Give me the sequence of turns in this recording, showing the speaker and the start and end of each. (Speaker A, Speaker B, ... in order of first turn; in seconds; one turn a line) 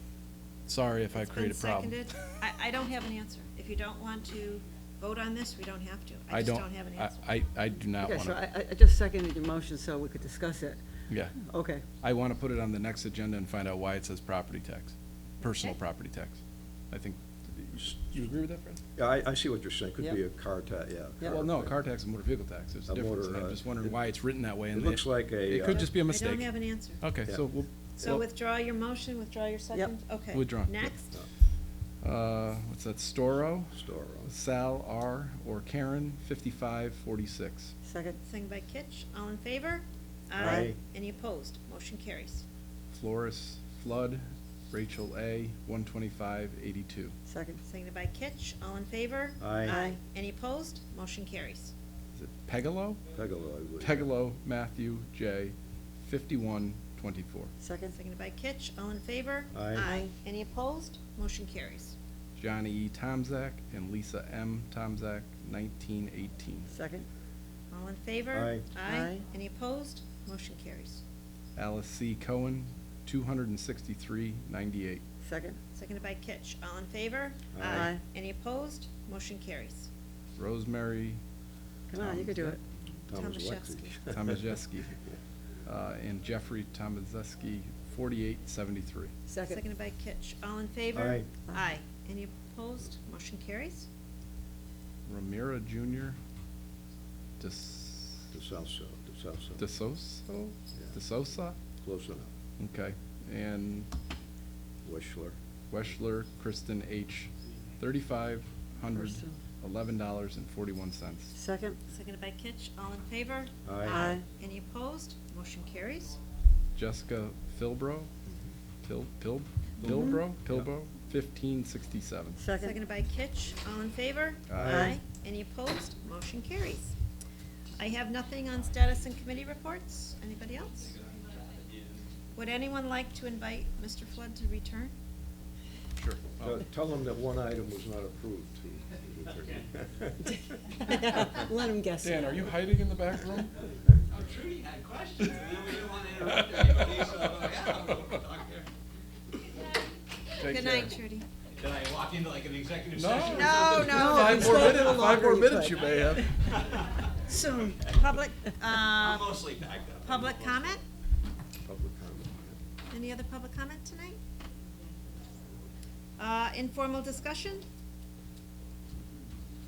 Speaker A: 0.7-2.0
Speaker B: 1.1-7.3
Speaker A: 6.3-8.4
Speaker C: 8.0-11.9
Speaker A: 11.1-11.4
Speaker A: 12.0-18.8
Speaker B: 15.4-15.8
Speaker D: 19.0-21.8
Speaker A: 21.3-28.2
Speaker D: 22.9-23.9
Speaker D: 24.7-25.9
Speaker B: 25.8-27.0
Speaker D: 27.3-28.2
Speaker B: 28.0-31.1
Speaker A: 30.3-31.1
Speaker A: 32.0-37.7
Speaker D: 33.7-34.3
Speaker C: 37.8-38.2
Speaker B: 38.2-42.4
Speaker D: 40.4-40.8
Speaker A: 42.9-47.1
Speaker C: 47.3-47.6
Speaker B: 47.6-51.7
Speaker D: 49.4-49.7
Speaker C: 49.7-50.0
Speaker A: 52.1-53.0
Speaker D: 53.1-54.1
Speaker A: 53.8-57.5
Speaker C: 57.6-58.0
Speaker B: 57.9-62.0
Speaker D: 59.5-59.8
Speaker C: 59.8-60.1
Speaker A: 62.4-66.7
Speaker C: 66.7-67.0
Speaker B: 67.7-71.0
Speaker D: 68.3-68.7
Speaker C: 68.8-69.2
Speaker A: 71.5-75.0
Speaker C: 75.2-75.6
Speaker B: 75.8-79.9
Speaker D: 77.5-77.9
Speaker C: 77.7-78.0
Speaker A: 80.4-81.2
Speaker C: 81.9-82.6
Speaker A: 82.0-82.6
Speaker B: 83.1-84.0
Speaker D: 83.1-84.4
Speaker A: 84.1-84.9
Speaker A: 85.6-89.1
Speaker C: 89.3-89.6
Speaker B: 89.5-93.9
Speaker D: 90.9-91.3
Speaker A: 95.1-96.2
Speaker A: 97.4-98.3
Speaker D: 98.3-99.6
Speaker A: 99.6-101.6
Speaker D: 101.8-102.3
Speaker A: 102.6-103.9
Speaker D: 104.8-105.4
Speaker A: 105.7-111.3
Speaker C: 108.9-109.4
Speaker C: 111.3-111.8
Speaker B: 111.9-116.2
Speaker D: 113.6-114.1
Speaker C: 113.9-114.2
Speaker A: 116.8-118.1
Speaker A: 118.8-122.4
Speaker C: 119.8-120.2
Speaker C: 122.4-122.8
Speaker B: 122.6-126.9
Speaker A: 124.5-124.9
Speaker D: 124.6-124.9
Speaker C: 124.6-125.0
Speaker B: 127.8-130.9
Speaker E: 130.8-132.1
Speaker B: 132.3-134.9
Speaker A: 136.0-136.6
Speaker D: 136.4-140.2
Speaker B: 140.8-141.3
Speaker C: 140.9-142.5
Speaker A: 142.0-143.5
Speaker E: 144.1-148.7
Speaker A: 146.2-147.0
Speaker A: 150.4-150.9
Speaker B: 150.4-151.3
Speaker E: 151.6-155.1
Speaker A: 152.9-156.3
Speaker B: 153.3-155.0
Speaker C: 153.8-156.3
Speaker E: 156.2-157.9
Speaker C: 157.3-157.7
Speaker B: 157.8-159.4
Speaker E: 158.8-160.8
Speaker B: 160.0-160.8
Speaker D: 161.6-162.6
Speaker B: 162.9-164.2
Speaker B: 166.2-167.7